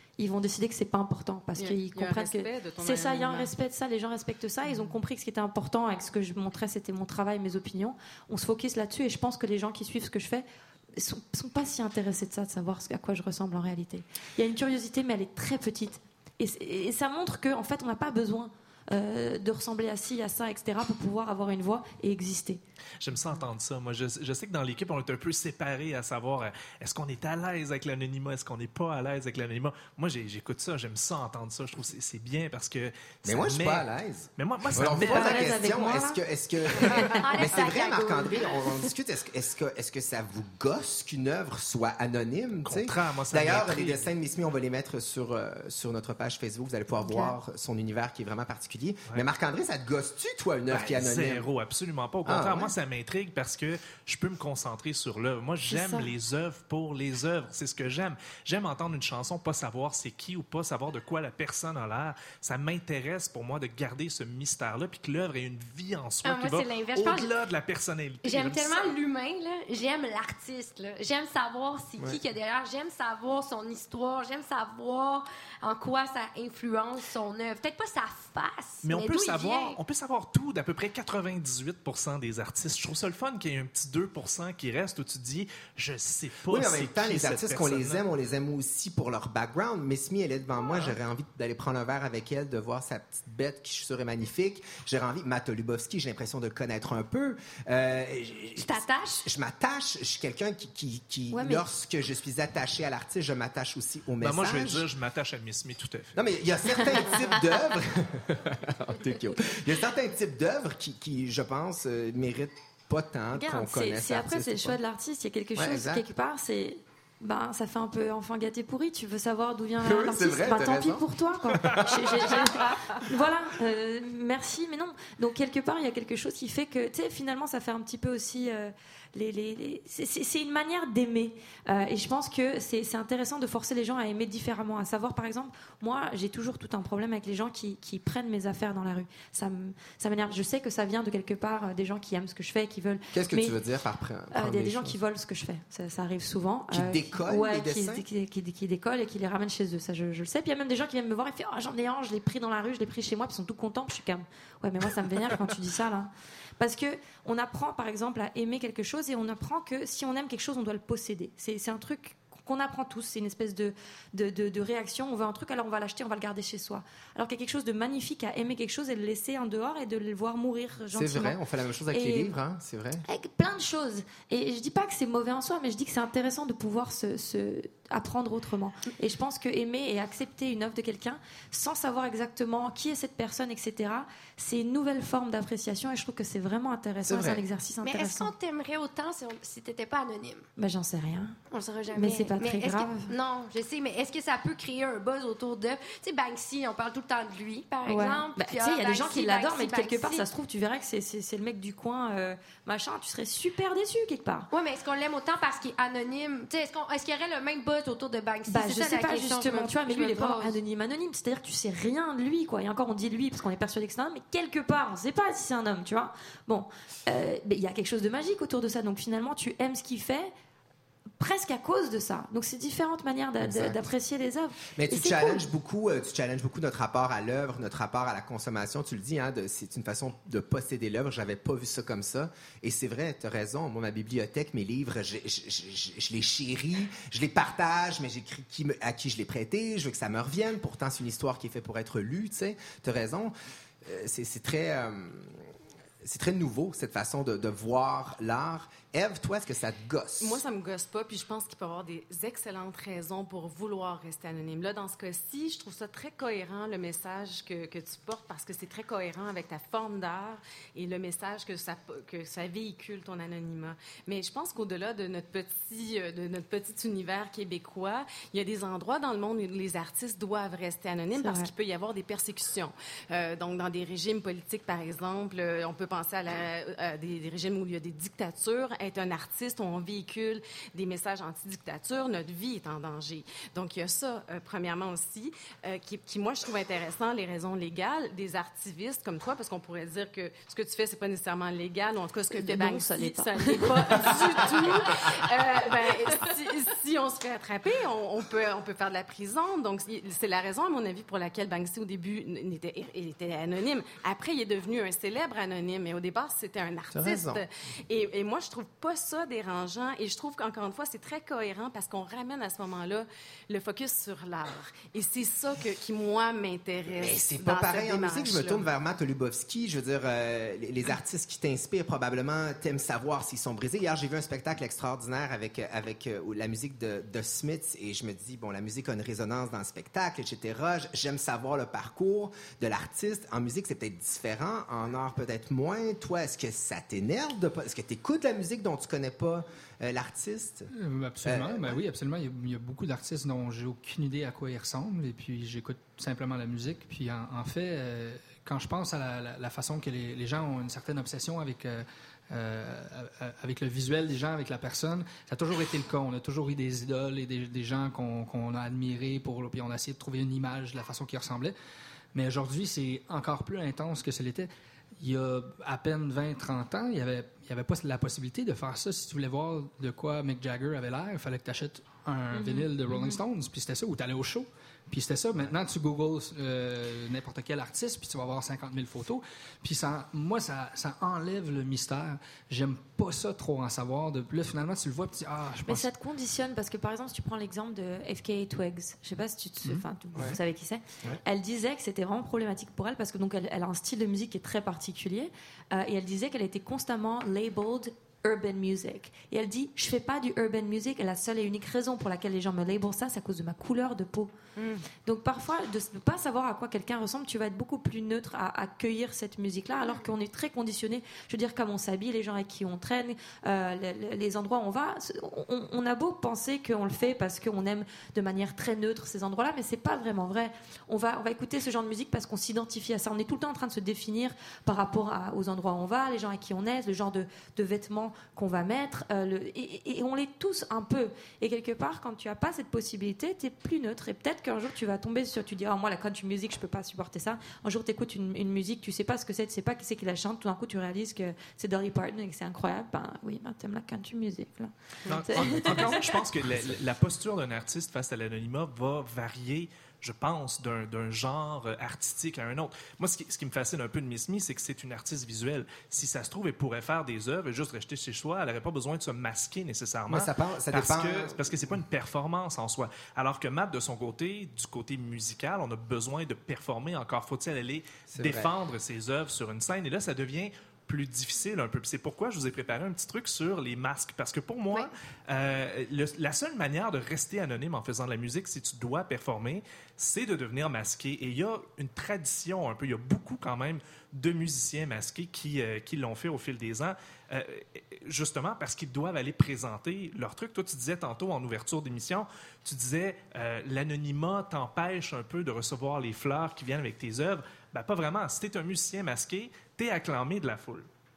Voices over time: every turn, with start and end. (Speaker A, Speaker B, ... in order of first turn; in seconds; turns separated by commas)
Speaker A: 0.2-22.6, Speaker B: 1.6-3.5, Speaker C: 23.0-35.6, Speaker D: 33.2-51.5, Speaker A: 34.9-36.2, Speaker A: 36.8-37.4, Speaker E: 37.2-38.7, Speaker C: 42.6-44.1, Speaker A: 47.0-47.3, Speaker C: 50.7-69.0, Speaker D: 52.2-52.7, Speaker A: 55.7-56.1, Speaker E: 66.2-67.3, Speaker E: 68.2-79.8, Speaker C: 78.8-88.0, Speaker D: 86.5-104.8, Speaker E: 98.6-99.2, Speaker A: 101.3-101.7, Speaker C: 104.2-106.2, Speaker D: 106.2-114.8, Speaker A: 113.3-143.6, Speaker D: 115.5-116.0, Speaker D: 119.8-121.0, Speaker C: 121.6-122.0, Speaker D: 143.1-145.0, Speaker A: 144.3-172.3, Speaker D: 146.7-148.0, Speaker D: 170.9-173.0, Speaker A: 173.1-188.3, Speaker D: 187.0-187.4, Speaker E: 187.8-190.5, Speaker A: 190.6-191.4, Speaker E: 191.5-200.3, Speaker A: 191.9-193.1, Speaker A: 197.8-204.5, Speaker E: 204.5-210.6, Speaker A: 208.5-220.3, Speaker A: 221.2-225.4, Speaker D: 223.4-223.8, Speaker D: 224.7-245.4, Speaker D: 246.0-250.4, Speaker B: 250.2-318.6, Speaker A: 271.1-271.5, Speaker A: 292.3-295.0, Speaker D: 306.9-307.4, Speaker D: 316.9-340.7, Speaker F: 340.7-361.5, Speaker D: 341.2-341.8, Speaker F: 362.1-385.9, Speaker A: 372.3-373.2, Speaker A: 385.6-404.3, Speaker A: 404.9-446.2, Speaker C: 445.1-500.9, Speaker D: 460.1-461.6, Speaker D: 468.1-468.5